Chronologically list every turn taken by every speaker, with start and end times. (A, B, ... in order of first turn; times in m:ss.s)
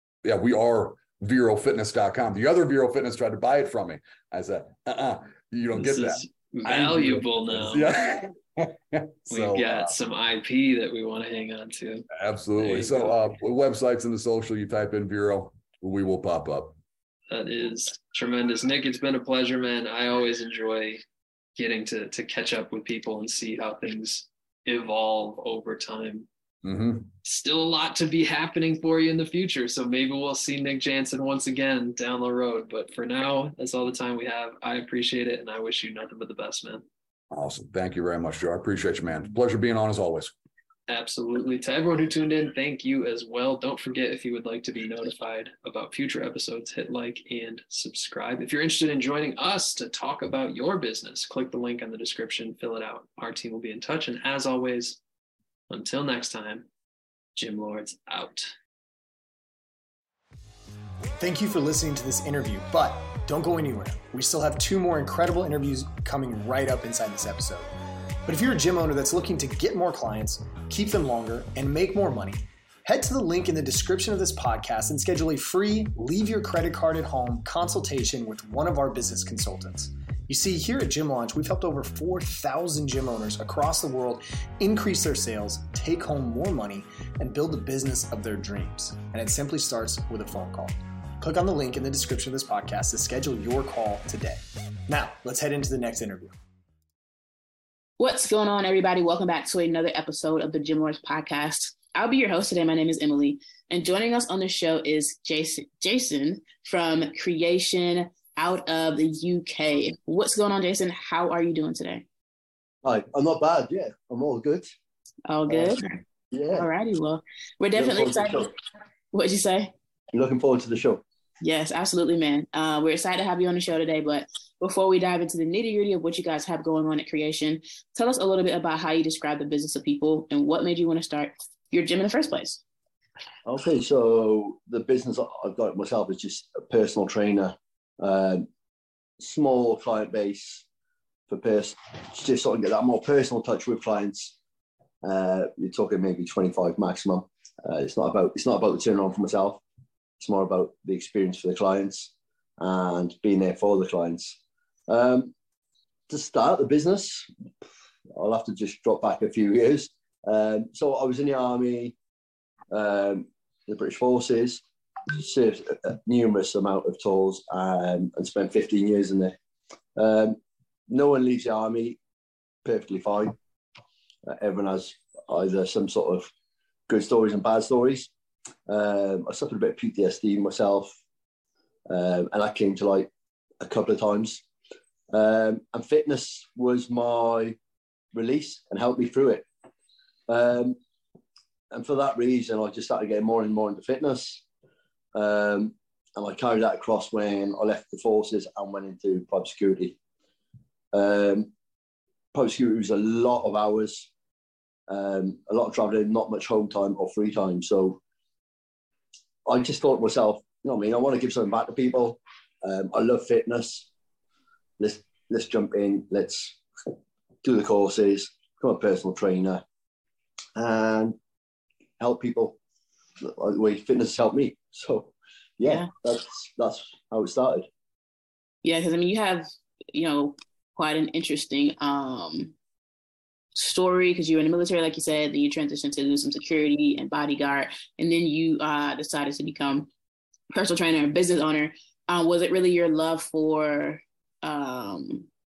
0:00.2-0:09.9 A
0:05.7-0:07.9 B
0:09.3-0:12.1 B
0:12.1-0:16.8 A
0:12.6-0:13.2 B
0:17.3-0:21.0 B
0:21.6-0:26.3 B
0:26.6-0:27.1 A
0:27.2-0:36.8 B
0:37.3-0:40.3 A
0:40.9-0:55.0 B
0:55.7-0:56.6 B
0:57.4-0:58.5 B
1:01.2-1:07.7 C
1:08.2-1:36.3 C
1:38.0-1:52.0 D
1:52.8-1:54.7 E
1:55.3-1:56.0 D
1:55.5-1:55.8 E
1:56.3-1:56.7 E
1:56.5-1:58.5 D
1:57.8-1:58.5 E
1:59.1-1:59.7 D
2:00.1-2:01.0 E
2:01.4-2:12.6 D
2:13.4-2:18.5 E
2:19.2-2:20.6 E
2:21.3-2:24.3 E
2:25.0-2:29.6 E
2:30.2-2:34.4 E
2:34.9-2:35.3 E
2:36.1-2:37.3 E
2:38.2-2:41.9 E
2:42.7-2:44.6 E
2:45.1-2:49.3 E
2:50.0-2:52.0 E
2:52.6-2:53.3 E
2:54.2-2:56.3 E
2:56.9-2:58.1 E
2:58.7-3:01.0 E
3:01.9-3:03.1 E
3:03.6-3:04.4 E
3:05.1-3:07.6 E
3:08.1-3:09.4 E
3:10.3-3:10.8 E
3:11.7-3:14.4 E
3:15.1-3:20.0 E
3:20.9-3:21.5 E
3:22.3-3:24.1 E
3:24.9-3:28.0 E
3:29.4-3:33.9 E
3:34.8-3:36.6 E
3:37.4-3:39.6 E
3:40.6-3:41.2 E
3:42.0-3:42.6 E
3:43.2-3:47.7 E
3:45.6-3:45.9 D
3:48.6-3:52.5 D
3:53.5-3:59.9 D
4:00.5-4:05.3 D